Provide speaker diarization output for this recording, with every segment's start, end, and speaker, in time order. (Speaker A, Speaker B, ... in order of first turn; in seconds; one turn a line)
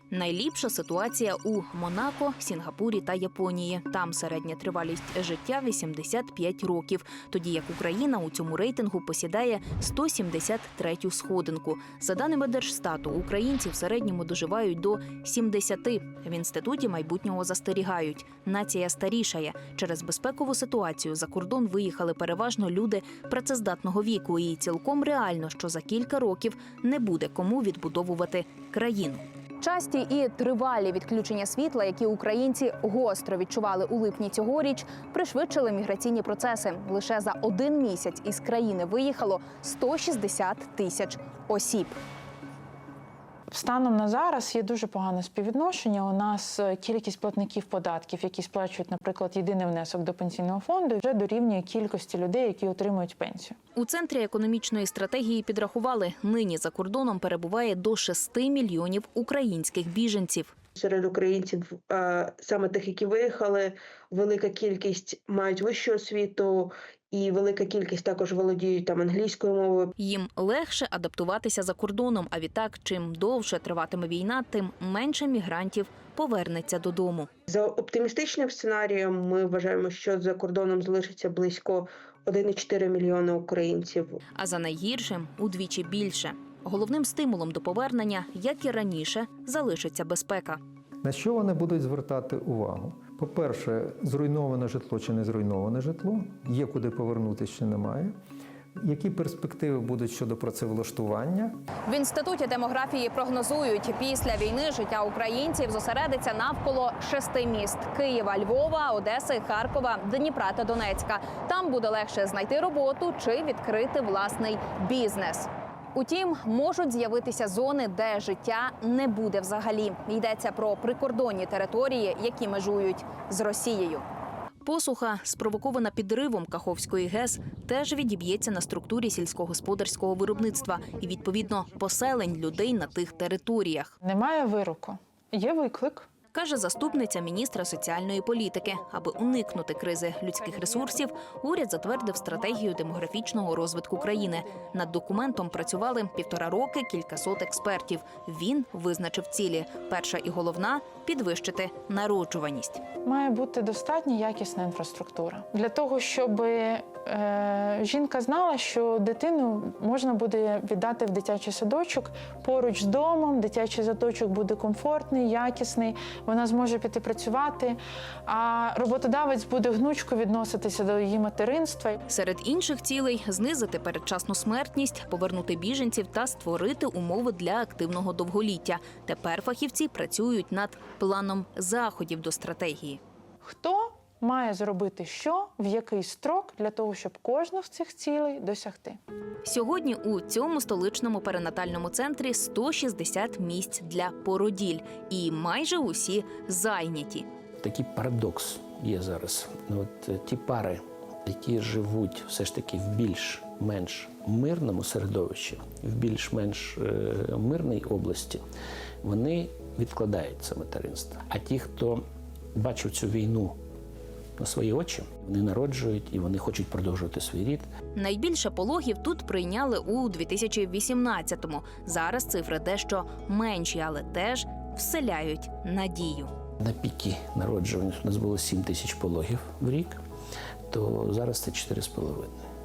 Speaker A: 0.1-42.0
Speaker B: 43.5-53.5
Speaker A: 53.8-60.5
Speaker C: 60.8-69.9
Speaker A: 70.0-77.3
Speaker C: 77.5-84.2
Speaker A: 84.3-90.6
Speaker D: 91.0-98.1
Speaker D: 98.8-101.5
Speaker A: 101.9-124.0
Speaker A: 124.6-133.9
Speaker B: 134.0-136.1
Speaker A: 136.3-152.8
Speaker B: 153.0-172.0
Speaker A: 172.1-183.0
Speaker B: 183.4-189.0
Speaker A: 189.4-197.2
Speaker E: 197.6-208.4
Speaker E: 209.0-213.6
Speaker E: 214.4-217.7
Speaker A: 217.9-226.3
Speaker E: 226.6-230.0
Speaker E: 230.7-232.4